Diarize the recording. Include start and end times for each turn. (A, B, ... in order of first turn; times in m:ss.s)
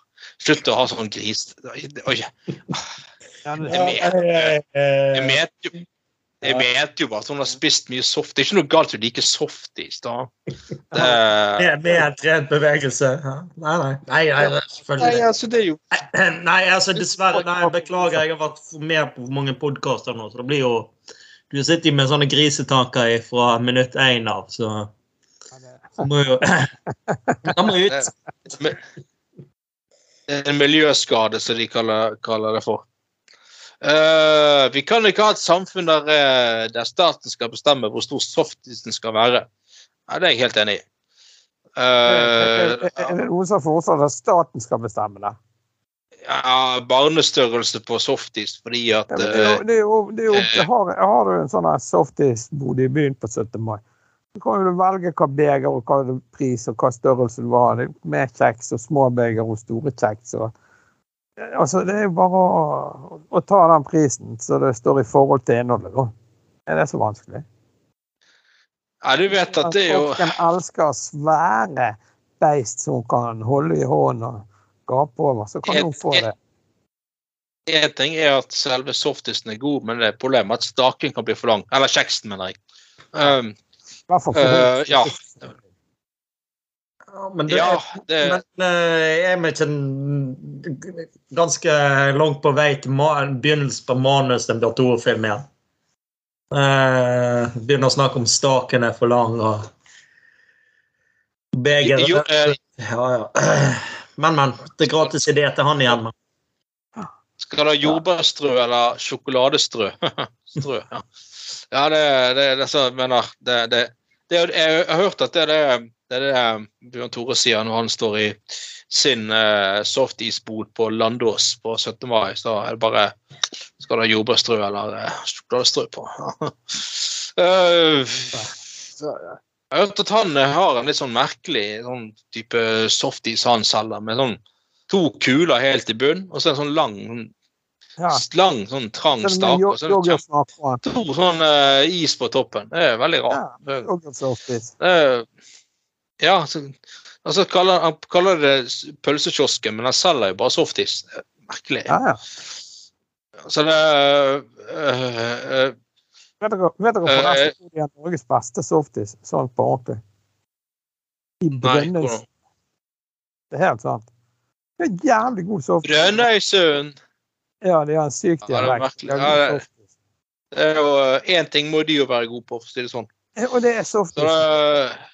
0:00.4-0:02.9 A
0:03.4-0:03.9 B
0:03.6-0:04.5 A
0:03.7-0:05.4 C
0:05.1-0:05.7 A
0:06.4-0:10.3 A
0:10.9-0:11.2 B
0:10.9-0:11.7 A
0:11.6-0:15.2 C
0:14.4-0:15.8 A
0:15.9-0:20.9 C
0:17.6-0:18.0 B
0:21.5-0:24.9 C
0:25.6-0:26.0 B
0:26.0-0:26.7 C
0:27.1-0:27.5 B
0:27.4-0:28.1 C
0:27.9-0:28.8 A
0:30.3-0:32.8 A
0:33.8-0:39.5 A
0:40.1-0:40.8 A
0:41.8-0:43.1 A
0:42.0-0:45.4 B
0:46.2-0:49.6 A
0:49.1-0:53.8 B
0:50.3-0:50.6 A
0:54.3-1:00.5 B
1:01.4-1:06.1 B
1:06.7-1:07.4 B
1:09.0-1:10.4 A
1:09.6-1:16.3 B
1:15.6-1:16.2 A
1:17.7-1:22.6 A
1:23.1-1:23.5 A
1:24.1-1:25.6 B
1:24.3-1:25.2 A
1:27.1-1:35.4 C
1:27.5-1:28.4 A
1:36.5-1:39.7 C
1:41.5-1:46.1 C
1:41.8-1:42.6 A
1:47.4-1:51.0 A
1:51.7-1:58.4 A
1:58.9-2:03.1 A
2:03.8-2:17.3 A
2:18.0-2:18.2 B
2:18.1-2:20.2 A
2:19.2-2:20.8 B
2:20.8-2:23.9 A
2:23.3-2:24.7 B
2:24.8-2:25.2 A
2:26.2-2:31.9 A
2:31.9-2:32.2 B
2:33.5-2:35.7 A
2:36.4-2:40.0 B
2:37.1-2:37.5 A
2:41.4-2:42.2 B
2:41.6-2:42.2 A
2:43.5-2:44.1 B
2:44.8-2:46.2 B
2:45.8-2:46.9 A
2:47.6-2:49.7 B
2:48.5-2:49.6 A
2:50.5-2:53.1 A
2:53.4-2:54.4 B
2:54.2-2:55.0 A